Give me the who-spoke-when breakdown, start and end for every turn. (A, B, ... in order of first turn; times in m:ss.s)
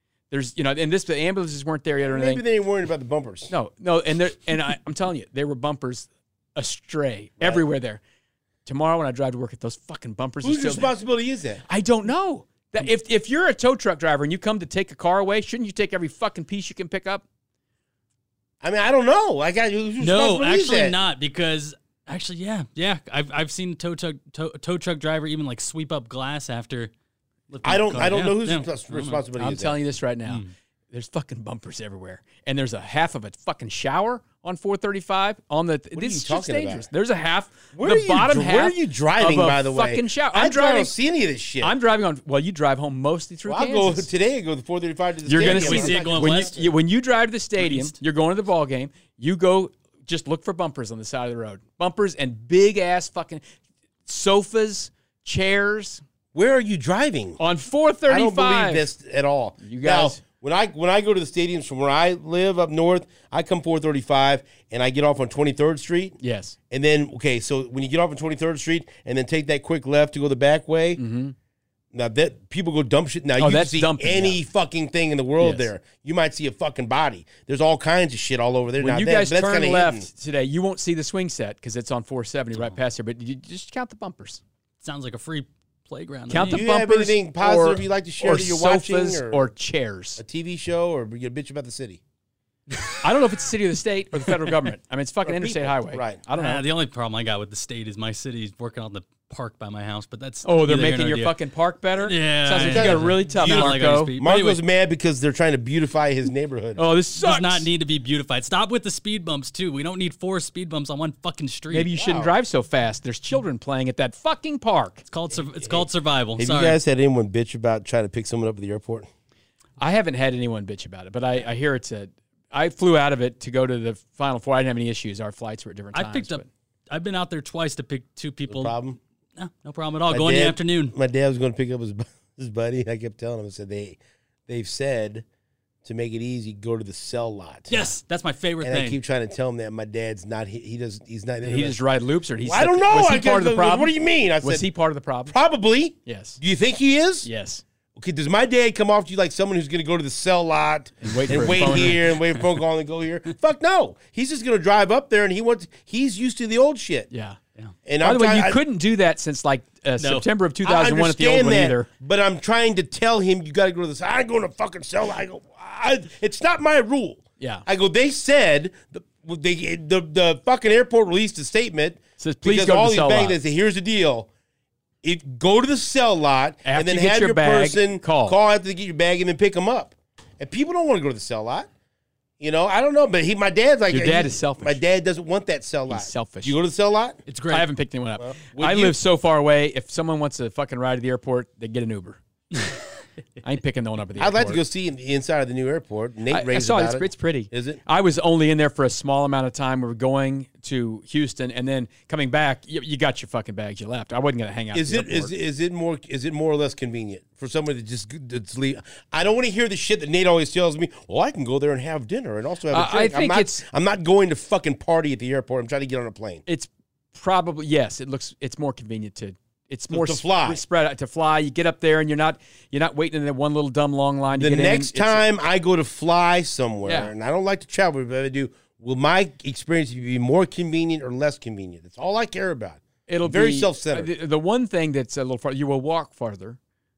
0:00.3-0:02.4 A
0:02.0-0:03.5 B
0:03.5-0:08.0 A
0:08.6-0:10.9 A
0:10.4-0:11.6 B
0:11.7-0:17.2 A
0:18.6-0:21.0 B
0:20.0-0:26.9 C
0:27.5-0:29.2 C
0:27.6-0:29.8 B
0:29.4-0:40.9 A
0:35.9-0:36.9 B
0:37.8-0:41.7 B
0:41.6-0:44.1 A
0:43.5-0:46.7 B
0:45.3-0:53.4 A
0:45.4-0:46.5 C
0:47.6-0:48.0 C
0:54.1-0:56.0 A
0:56.4-0:57.4 B
0:57.4-0:58.9 A
0:58.1-1:06.2 B
0:59.6-1:00.2 A
1:06.2-1:06.6 A
1:06.7-1:11.0 B
1:11.0-1:11.4 A
1:11.9-1:20.1 B
1:13.4-1:14.4 A
1:15.4-1:15.7 A
1:18.8-1:24.4 A
1:24.8-1:26.6 C
1:26.3-1:30.2 A
1:26.4-1:29.5 B
1:30.2-1:32.0 B
1:32.7-1:33.0 C
1:33.0-1:36.7 A
1:35.2-1:36.2 B
1:36.4-1:41.4 C
1:40.4-1:44.1 A
1:42.0-1:44.6 C
1:42.6-1:46.8 B
1:46.8-1:47.7 A
1:47.2-1:51.9 C
1:51.7-1:55.0 A
1:52.0-1:52.4 B
1:55.1-1:56.8 C
1:55.6-1:55.9 B
1:56.4-1:59.1 B
1:59.8-2:06.5 A
2:05.9-2:08.8 C
2:08.5-2:09.0 B
2:09.4-2:11.0 C
2:10.1-2:15.2 B
2:15.8-2:17.9 B
2:17.7-2:19.0 C
2:18.6-2:21.8 B
2:21.4-2:25.4 A
2:22.4-2:24.7 B
2:25.3-2:27.3 B
2:26.1-2:26.4 A
2:27.2-2:27.6 A
2:28.0-2:37.1 B
2:31.0-2:32.1 A
2:37.1-2:37.4 A
2:37.9-2:38.6 B
2:38.0-2:41.9 A
2:40.0-2:40.3 C
2:40.6-2:54.3 B
2:47.4-2:47.6 A
2:52.2-2:53.4 A
2:55.0-3:01.7 B
2:56.6-2:58.4 A
3:02.4-3:07.2 B
3:03.9-3:04.8 A
3:05.9-3:06.6 A
3:07.3-3:07.7 C
3:07.5-3:12.2 A
3:08.2-3:09.0 B
3:13.4-3:14.6 A
3:14.2-3:17.8 B
3:16.3-3:25.3 A
3:24.7-3:36.4 B
3:32.7-3:33.6 A
3:36.5-3:45.2 A
3:39.9-3:40.6 B
3:44.4-3:54.1 B
3:46.8-3:47.1 A
3:53.1-3:56.6 A